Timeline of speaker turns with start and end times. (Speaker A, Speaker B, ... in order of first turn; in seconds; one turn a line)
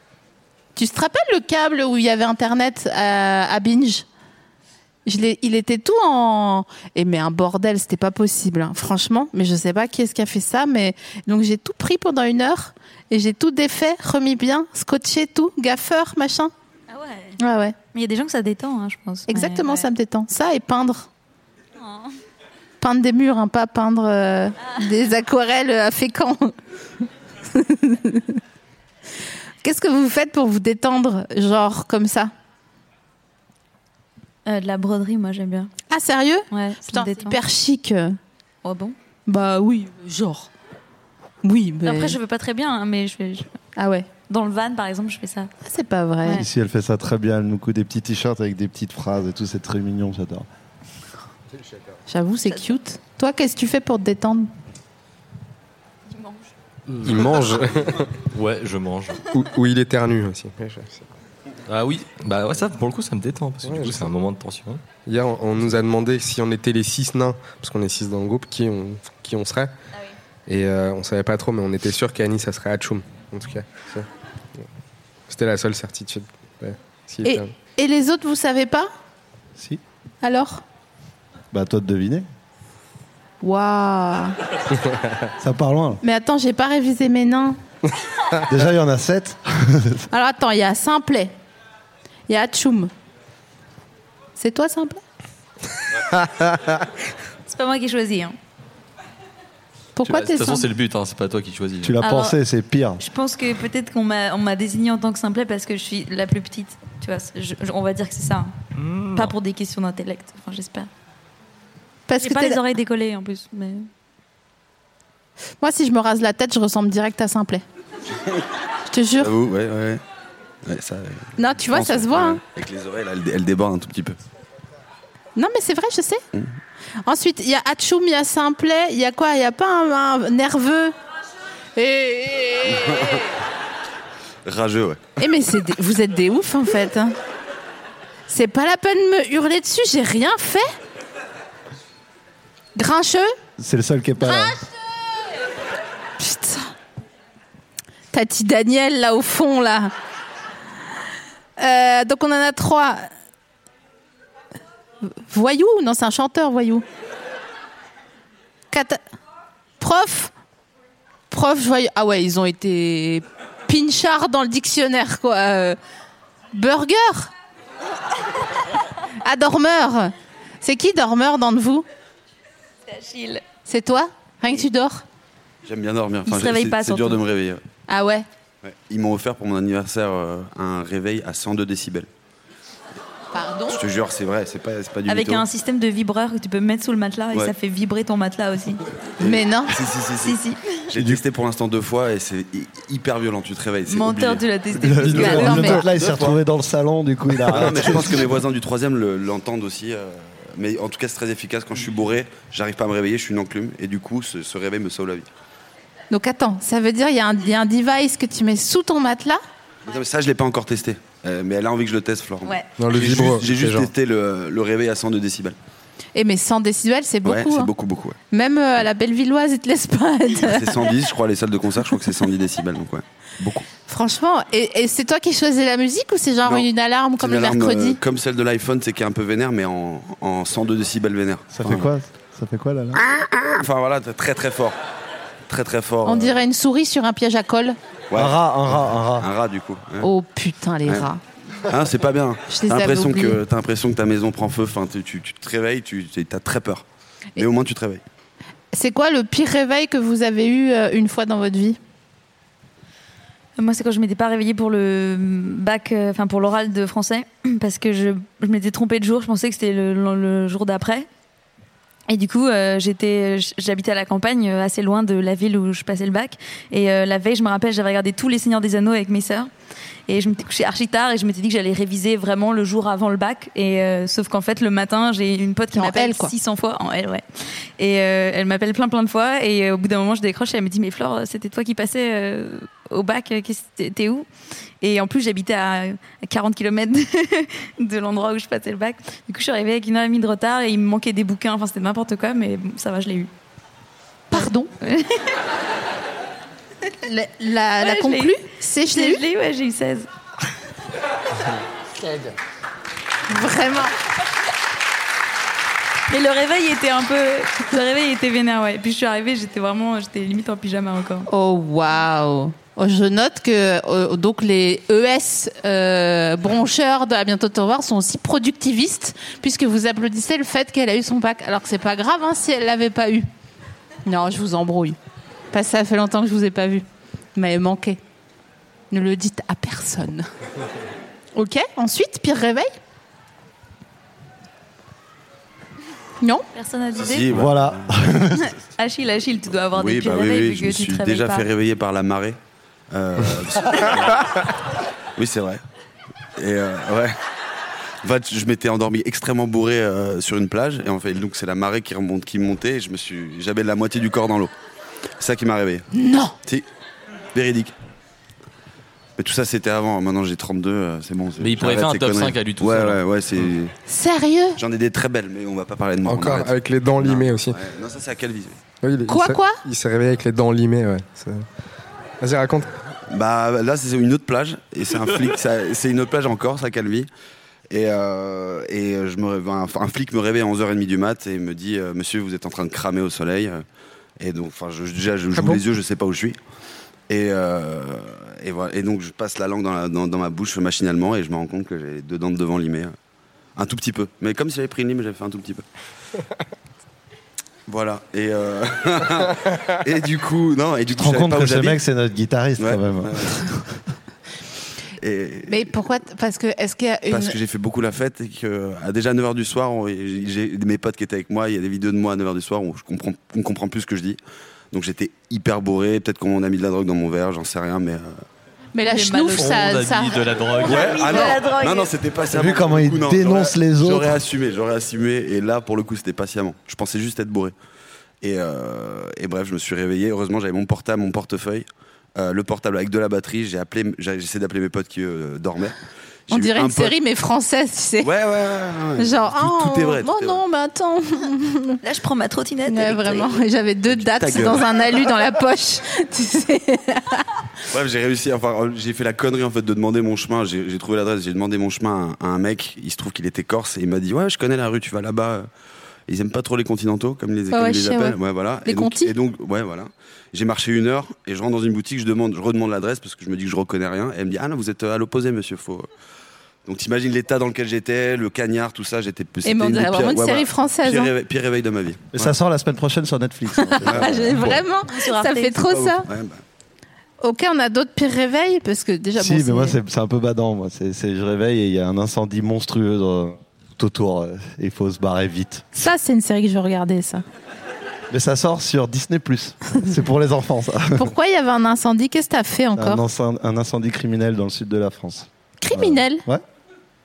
Speaker A: 0.8-4.0
Speaker A: 5.0-16.5
Speaker B: 16.9-17.4
Speaker A: 17.4-17.8
Speaker B: 17.9-19.9
Speaker A: 19.3-21.1
Speaker B: 21.8-22.1
Speaker A: 22.8-26.5
Speaker A: 27.5-28.4
Speaker A: 29.6-32.3
Speaker B: 34.5-35.7
Speaker A: 35.9-38.2
Speaker B: 36.5-37.4
Speaker B: 38.6-39.0
Speaker A: 39.3-40.5
Speaker A: 41.4-42.2
Speaker B: 41.8-43.6
Speaker A: 43.8-44.1
Speaker B: 44.3-45.5
Speaker A: 45.6-46.4
Speaker C: 46.3-50.5
Speaker A: 52.1-54.5
Speaker B: 56.1-56.5
Speaker D: 56.9-58.1
Speaker E: 57.0-57.3
Speaker E: 58.2-59.2
Speaker D: 59.3-61.1
Speaker E: 61.7-64.8
Speaker D: 63.6-64.1
Speaker D: 65.0-69.7
Speaker D: 70.5-74.1
Speaker D: 75.3-77.5
Speaker A: 77.2-78.9
Speaker A: 80.2-80.6
Speaker C: 81.5-82.2
Speaker A: 83.4-84.3
Speaker C: 85.4-86.0
Speaker A: 86.0-87.6
Speaker C: 88.5-90.1
Speaker A: 90.1-91.3
Speaker A: 92.3-92.9
Speaker A: 94.4-95.0
Speaker D: 96.2-96.7
Speaker B: 97.5-98.3
Speaker A: 100.0-100.7
Speaker E: 100.0-102.0
Speaker C: 101.8-103.0
Speaker B: 102.0-102.4
Speaker B: 103.0-108.5
Speaker E: 108.7-109.3
Speaker B: 109.1-110.9
Speaker A: 112.1-112.6
Speaker B: 112.2-113.9
Speaker A: 115.6-117.6
Speaker A: 118.9-119.3
Speaker F: 119.2-120.0
Speaker F: 120.6-124.2
Speaker A: 121.4-122.4
Speaker A: 125.3-126.2
Speaker A: 127.0-130.9
Speaker A: 131.8-133.2
Speaker F: 132.7-133.2
Speaker F: 134.4-135.0
Speaker A: 135.2-137.1
Speaker A: 138.3-140.7
Speaker A: 142.8-143.3
Speaker C: 143.6-144.6
Speaker A: 144.2-144.5
Speaker A: 146.2-146.7
Speaker A: 148.1-149.9
Speaker A: 151.6-153.1
Speaker A: 155.0-156.8
Speaker A: 158.7-159.0
Speaker A: 159.8-160.3
Speaker A: 161.3-165.8
Speaker A: 166.5-167.3
Speaker A: 169.2-171.8
Speaker B: 172.9-173.4
Speaker A: 173.7-175.0
Speaker F: 175.6-177.6
Speaker B: 176.2-177.2
Speaker A: 177.9-178.2
Speaker F: 178.6-182.1
Speaker A: 183.3-183.8
Speaker F: 183.7-185.4
Speaker B: 185.1-188.8
Speaker F: 189.2-196.4
Speaker A: 189.2-189.8
Speaker B: 190.2-190.8
Speaker B: 193.9-195.8
Speaker C: 194.8-198.2
Speaker A: 195.3-195.8
Speaker F: 197.4-205.3
Speaker A: 206.1-209.4
Speaker F: 209.8-215.6
Speaker B: 212.4-212.7
Speaker D: 212.8-213.9
Speaker A: 216.1-217.7
Speaker F: 217.2-218.2
Speaker A: 218.3-220.9
Speaker F: 220.4-223.7
Speaker A: 223.9-228.0
Speaker F: 227.2-231.9
Speaker C: 231.5-233.0
Speaker F: 232.9-234.8
Speaker F: 235.5-236.3
Speaker A: 236.0-237.8
Speaker F: 238.1-238.4
Speaker C: 238.1-239.3
Speaker F: 239.2-240.1
Speaker A: 240.0-241.2
Speaker F: 241.7-246.8
Speaker A: 242.5-243.4
Speaker F: 247.3-248.0
Speaker A: 248.7-251.8
Speaker B: 253.6-261.1
Speaker B: 262.1-269.5
Speaker B: 270.1-284.3
Speaker A: 275.7-276.3
Speaker B: 284.8-293.3
Speaker A: 294.3-294.7
Speaker B: 294.3-295.3
Speaker A: 297.0-299.2
Speaker B: 297.8-298.4
Speaker B: 298.9-300.1
Speaker A: 303.3-303.9
Speaker B: 306.1-311.3
Speaker A: 311.3-323.3
Speaker A: 324.1-325.0
Speaker A: 325.5-326.8
Speaker A: 327.4-328.0
Speaker A: 328.9-330.3
Speaker A: 331.3-332.7
Speaker A: 336.2-336.5
Speaker B: 336.5-337.4
Speaker F: 336.9-338.0
Speaker C: 337.3-338.4
Speaker B: 338.4-341.5
Speaker F: 339.7-342.4
Speaker F: 342.9-344.4
Speaker F: 345.1-345.6
Speaker F: 346.4-347.1
Speaker F: 348.0-354.5
Speaker F: 355.2-355.9
Speaker A: 355.9-356.4
Speaker F: 357.3-357.7
Speaker F: 359.2-363.7
Speaker E: 361.4-363.0
Speaker A: 363.9-364.6
Speaker F: 364.6-368.5
Speaker D: 366.0-367.6
Speaker D: 368.8-371.4
Speaker A: 369.1-369.6
Speaker D: 372.2-372.7
Speaker F: 373.1-377.1
Speaker F: 377.7-383.6
Speaker F: 384.2-386.4
Speaker D: 385.3-385.6
Speaker F: 387.1-392.9
Speaker F: 393.6-395.6
Speaker F: 397.7-401.8
Speaker C: 400.9-403.5
Speaker F: 402.6-403.5
Speaker F: 405.0-405.7
Speaker A: 405.5-407.4
Speaker F: 407.1-414.2
Speaker F: 414.7-418.2
Speaker A: 418.7-420.2
Speaker B: 418.8-419.9
Speaker E: 419.3-421.3
Speaker F: 420.6-427.5
Speaker B: 420.6-421.9
Speaker C: 422.3-424.2
Speaker F: 428.2-435.8
Speaker F: 436.3-436.9
Speaker A: 436.3-438.1
Speaker F: 438.0-440.4
Speaker A: 439.0-441.8
Speaker B: 441.8-443.3
Speaker A: 442.7-447.3
Speaker F: 443.9-444.7
Speaker F: 447.7-455.5
Speaker F: 456.1-465.9
Speaker A: 457.5-459.1
Speaker F: 466.6-472.3
Speaker A: 469.4-471.1
Speaker C: 472.1-474.6
Speaker A: 473.6-476.1
Speaker F: 473.8-474.6
Speaker B: 474.9-475.7
Speaker F: 475.6-476.4
Speaker A: 477.2-479.8
Speaker C: 479.2-485.7
Speaker A: 485.8-487.2
Speaker C: 488.1-491.0
Speaker A: 490.9-493.0
Speaker C: 492.8-496.4
Speaker A: 495.6-496.2